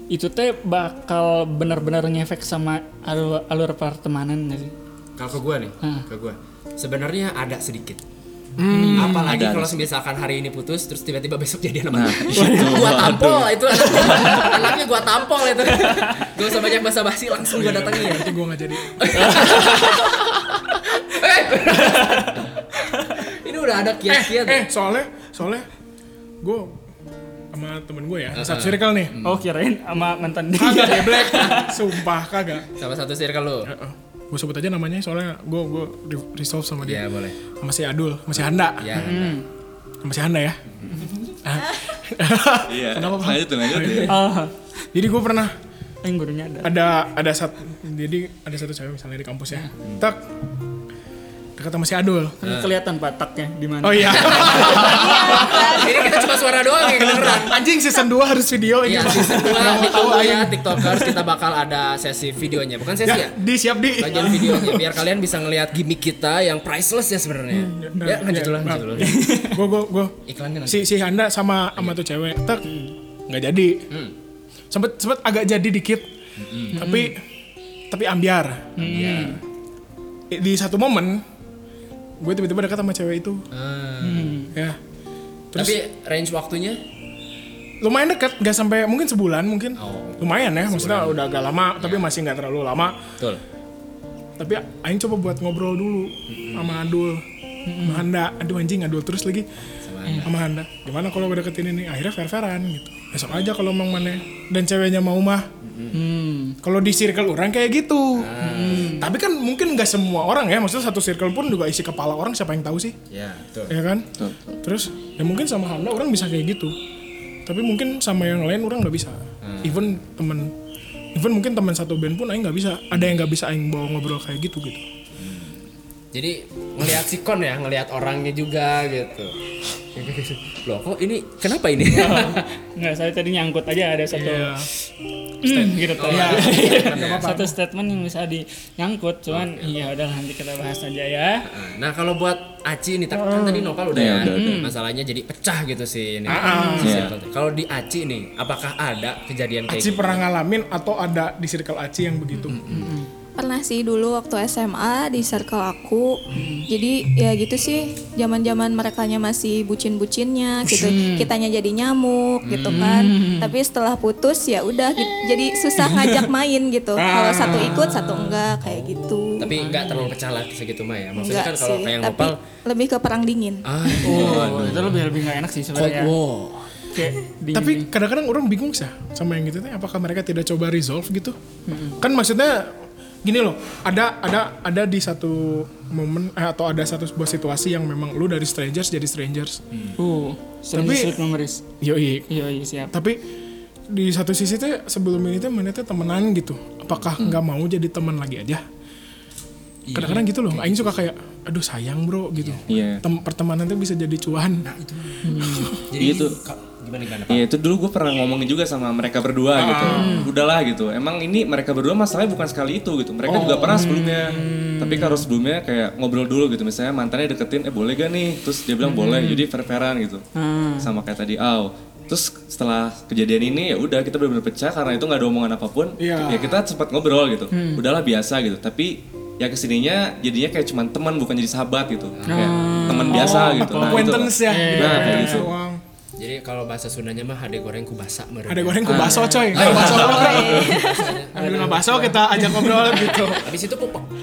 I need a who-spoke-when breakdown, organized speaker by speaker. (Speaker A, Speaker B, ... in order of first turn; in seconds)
Speaker A: 0.1-4.7, 8.7-9.3, 12.3-12.9, 14.1-14.5, 15.8-16.3, 19.1-20.3, 21.7-23.2, 29.2-31.8, 39.0-39.4, 44.0-44.5, 46.0-46.8, 52.4-55.0, 69.0-69.6, 72.6-72.9, 76.7-77.1, 78.8-79.4, 84.0-84.5, 97.7-98.1, 105.9-106.6, 108.4-109.1, 131.9-134.7, 135.4-141.5, 144.3-144.8, 146.3-146.8, 152.4-153.1, 156.3-156.7, 160.7-161.3, 162.7-163.5, 165.8-166.2, 167.4-168.4, 169.6-170.1, 174.0-176.1, 176.9-177.9, 181.7-182.0, 190.0-191.6, 192.3-192.9, 205.2-205.8, 209.9-210.3, 213.3-215.3, 218.8-219.5, 220.3-220.9, 227.5-227.8, 232.3-235.5, 238.9-239.8, 241.3-243.3
Speaker B: 5.2-8.0, 8.9-18.4, 19.0-20.4, 21.0-22.5, 23.2-24.7, 28.4-29.4, 31.3-31.7, 32.8-33.7, 36.8-37.4, 38.8-39.4, 52.4-52.7, 54.2-57.6, 58.9-63.4, 64.0-69.2, 70.3-70.9, 76.4-76.8, 78.8-79.4, 83.5-84.4, 85.6-86.8, 89.8-91.2, 91.8-92.1, 96.3-96.8, 99.8-100.3, 105.6-106.0, 108.2-108.9, 113.1-113.8, 119.4-119.8, 125.2-125.6, 126.1-132.4, 135.7-137.3, 139.3-139.7, 141.4-150.2, 152.5-152.9, 162.4-162.9, 168.6-172.4, 173.7-175.1, 175.8-176.7, 199.8-201.1, 202.4-202.7, 204.6-207.5, 232.2-232.9, 236.2-241.7, 242.8-244.1
Speaker C: 8.6-9.4, 17.5-19.3, 24.1-25.7, 26.4-26.8, 27.5-29.2, 30.6-32.7, 33.6-38.9, 40.0-40.6, 41.3-44.2, 44.9-45.5, 46.6-50.2, 51.6-52.4, 53.8-56.3, 56.8-61.1, 63.0-64.8, 67.5-72.7, 73.3-73.9, 74.7-76.1, 76.7-77.2, 77.9-78.7, 80.3-81.2, 82.2-83.5, 85.5-85.8, 87.8-93.0, 94.4-97.2, 97.8-99.5, 100.2-105.5, 106.6-108.3, 108.8-113.0, 113.7-114.1, 114.6-116.8, 117.5-120.5, 121.2-124.8, 134.1-134.7, 135.4-137.5, 143.1-143.8, 146.3-147.0, 149.7-152.6, 167.0-167.9, 177.5-181.4, 182.0-189.6, 190.7-191.2, 191.8-192.3, 192.9-193.2, 193.9-198.6, 199.9-204.7, 205.4-205.9, 209.6-210.3, 213.3-213.8, 226.0-226.6, 233.0-235.8, 238.5-243.5
Speaker D: 9.2-9.9, 11.9-14.4, 42.7-44.1, 114.2-114.5, 143.9-144.6, 146.8-147.2, 202.7-203.0, 206.0-206.4, 207.3-220.2, 220.8-235.5, 238.9-240.9
Speaker E: 55.2-55.5, 146.4-146.8, 153.4-169.5, 171.2-174.4, 240.1-241.2